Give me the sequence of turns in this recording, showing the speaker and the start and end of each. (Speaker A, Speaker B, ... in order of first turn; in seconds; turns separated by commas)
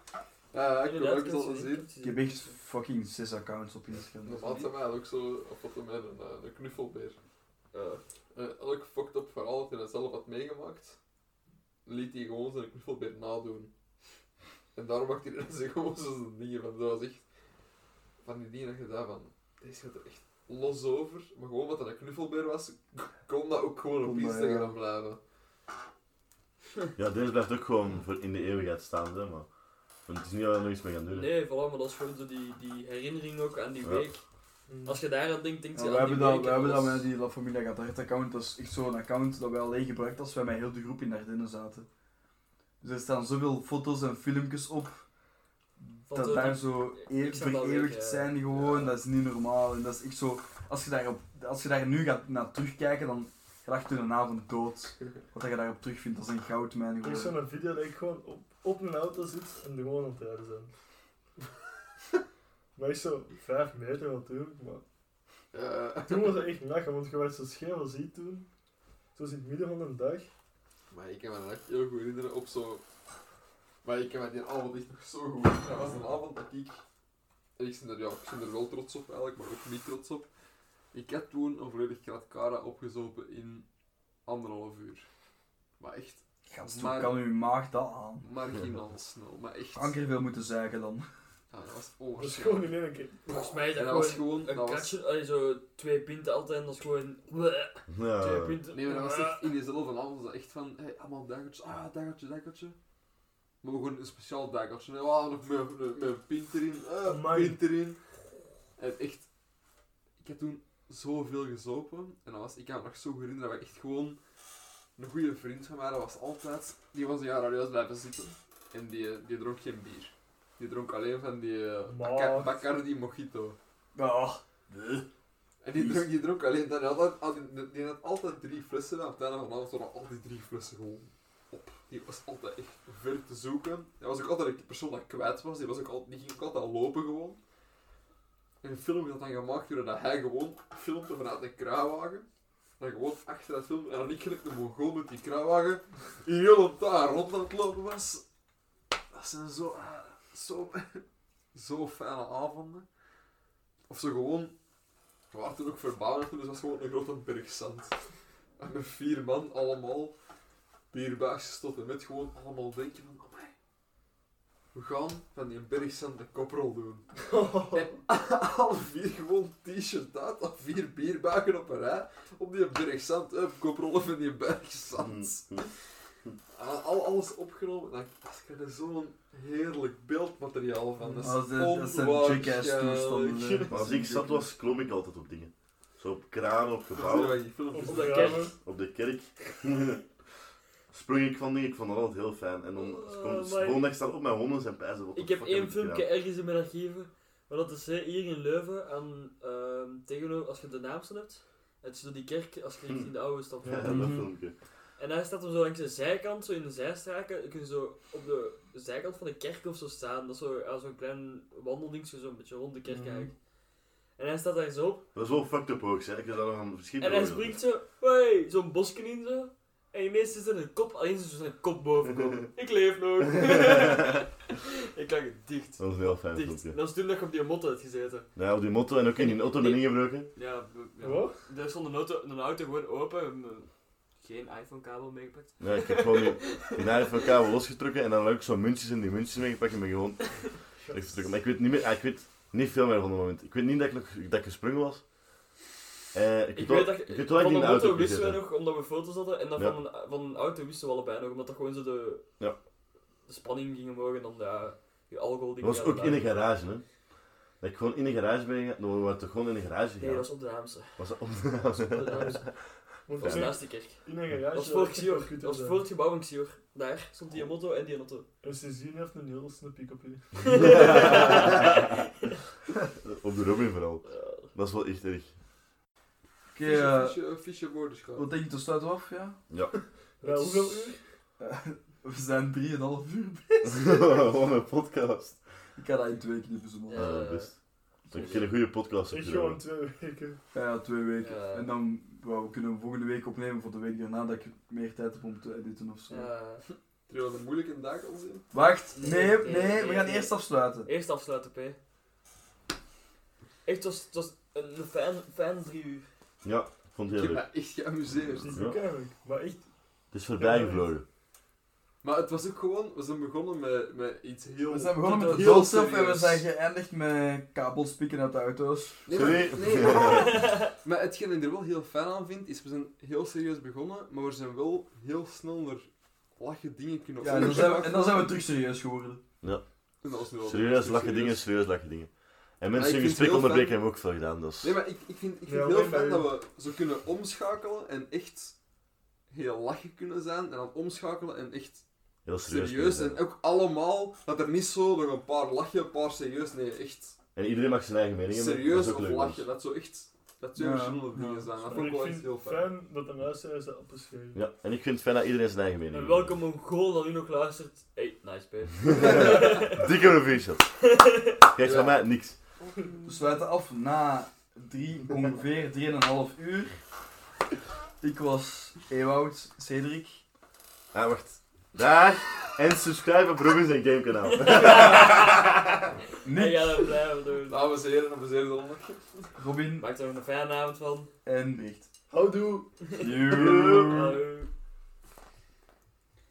Speaker A: 0.5-1.8, Speaker B: 0.8-2.5, Speaker C: 2.0-4.7, Speaker A: 4.2-7.2, Speaker B: 7.7-8.0, Speaker A: 8.3-11.0, Speaker A: 11.8-13.7, Speaker A: 14.7-17.3, Speaker A: 18.2-25.2, Speaker C: 24.0-24.7, Speaker D: 26.9-29.5, Speaker D: 30.0-31.3, Speaker B: 31.1-37.1, Speaker E: 34.6-35.0, Speaker C: 35.7-41.9, Speaker C: 42.8-45.0, Speaker C: 45.8-57.4, Speaker B: 46.0-48.9, Speaker E: 57.0-60.7, Speaker E: 62.7-64.8, Speaker A: 65.5-66.4, Speaker E: 66.0-68.5, Speaker E: 69.1-70.3, Speaker A: 70.9-72.8, Speaker A: 73.8-76.8, Speaker A: 77.6-80.3, Speaker A: 80.9-83.7, Speaker A: 84.2-85.1, Speaker A: 85.8-87.3, Speaker C: 86.5-88.2, Speaker A: 88.2-90.0, Speaker C: 89.7-91.1, Speaker A: 91.5-92.8, Speaker E: 92.2-93.3, Speaker B: 93.3-99.5, Speaker A: 93.3-94.9, Speaker D: 97.9-98.6, Speaker A: 98.7-102.8, Speaker A: 103.6-108.1, Speaker E: 107.0-107.6, Speaker A: 108.8-109.3, Speaker A: 110.2-114.2, Speaker A: 115.0-123.6, Speaker E: 121.9-122.6, Speaker C: 123.9-125.0, Speaker A: 125.6-137.4, Speaker C: 125.7-126.1, Speaker A: 138.6-142.3, Speaker A: 142.8-148.2, Speaker A: 149.1-152.8, Speaker A: 153.9-154.6, Speaker A: 155.3-160.1, Speaker A: 160.9-163.5, Speaker A: 164.7-167.2, Speaker E: 167.2-168.0, Speaker A: 167.7-175.9, Speaker D: 175.0-175.7, Speaker A: 176.5-183.6, Speaker E: 181.0-181.3, Speaker C: 181.2-184.5, Speaker E: 183.4-183.8, Speaker D: 183.7-187.6, Speaker A: 186.9-188.5, Speaker E: 187.7-188.5, Speaker B: 187.8-188.5, Speaker D: 188.5-190.1, Speaker D: 190.9-196.1, Speaker B: 192.7-193.8, Speaker B: 195.1-204.2, Speaker D: 202.9-204.6, Speaker E: 203.6-204.1, Speaker C: 203.8-204.3, Speaker B: 205.0-213.5, Speaker C: 212.9-213.3, Speaker B: 214.1-215.0, Speaker D: 215.1-217.6, Speaker B: 217.0-228.3, Speaker D: 225.8-226.8, Speaker D: 228.3-230.3, Speaker B: 229.2-236.7, Speaker E: 231.0-231.4, Speaker D: 235.6-245.1, Speaker E: 240.8-241.2, Speaker D: 246.1-248.5, Speaker B: 246.5-252.6, Speaker B: 253.2-256.3, Speaker D: 255.6-263.9, Speaker B: 260.0-261.3, Speaker B: 261.9-268.2, Speaker E: 261.9-262.4, Speaker E: 263.0-265.8, Speaker E: 268.4-271.2, Speaker D: 270.5-271.9, Speaker B: 270.6-272.0, Speaker D: 273.0-275.4, Speaker B: 274.0-274.5, Speaker C: 276.5-277.2, Speaker A: 276.6-278.3, Speaker C: 278.1-279.4, Speaker D: 279.5-279.8, Speaker E: 280.2-281.0, Speaker B: 280.2-281.0, Speaker C: 281.4-284.1, Speaker D: 283.6-285.5, Speaker C: 285.8-287.4, Speaker B: 286.9-288.5, Speaker D: 286.9-289.6, Speaker E: 289.1-290.4, Speaker C: 290.5-296.3, Speaker B: 291.2-291.8, Speaker B: 296.1-296.6, Speaker A: 297.1-298.5, Speaker C: 298.5-300.9, Speaker B: 298.9-301.8, Speaker B: 303.6-306.1, Speaker D: 306.4-307.6, Speaker A: 307.1-308.6, Speaker D: 308.1-308.8, Speaker E: 308.4-309.7, Speaker D: 310.1-311.0, Speaker E: 310.2-310.9, Speaker A: 312.0-316.4, Speaker C: 314.7-319.1, Speaker B: 315.0-315.6, Speaker A: 319.0-328.3, Speaker D: 319.1-320.5, Speaker B: 319.9-320.7, Speaker C: 327.2-329.2, Speaker D: 329.4-334.7, Speaker A: 330.0-331.4, Speaker A: 332.7-338.6, Speaker E: 335.4-336.3, Speaker A: 339.3-347.2, Speaker D: 342.2-343.2, Speaker D: 347.3-349.5, Speaker A: 348.3-352.7, Speaker C: 350.6-351.5, Speaker E: 351.6-354.4, Speaker D: 354.3-356.4, Speaker B: 355.9-359.8, Speaker D: 358.9-360.9, Speaker B: 360.9-361.4, Speaker D: 361.5-362.4, Speaker A: 361.6-363.2, Speaker C: 363.1-366.8, Speaker C: 368.0-370.2, Speaker D: 370.9-375.4, Speaker B: 374.4-375.3, Speaker C: 376.2-376.9, Speaker B: 376.3-377.6, Speaker A: 377.5-379.3, Speaker C: 379.4-379.9, Speaker B: 379.8-381.1, Speaker C: 381.2-381.9, Speaker E: 382.1-383.0, Speaker B: 382.9-384.5, Speaker C: 383.0-384.2, Speaker D: 383.3-383.9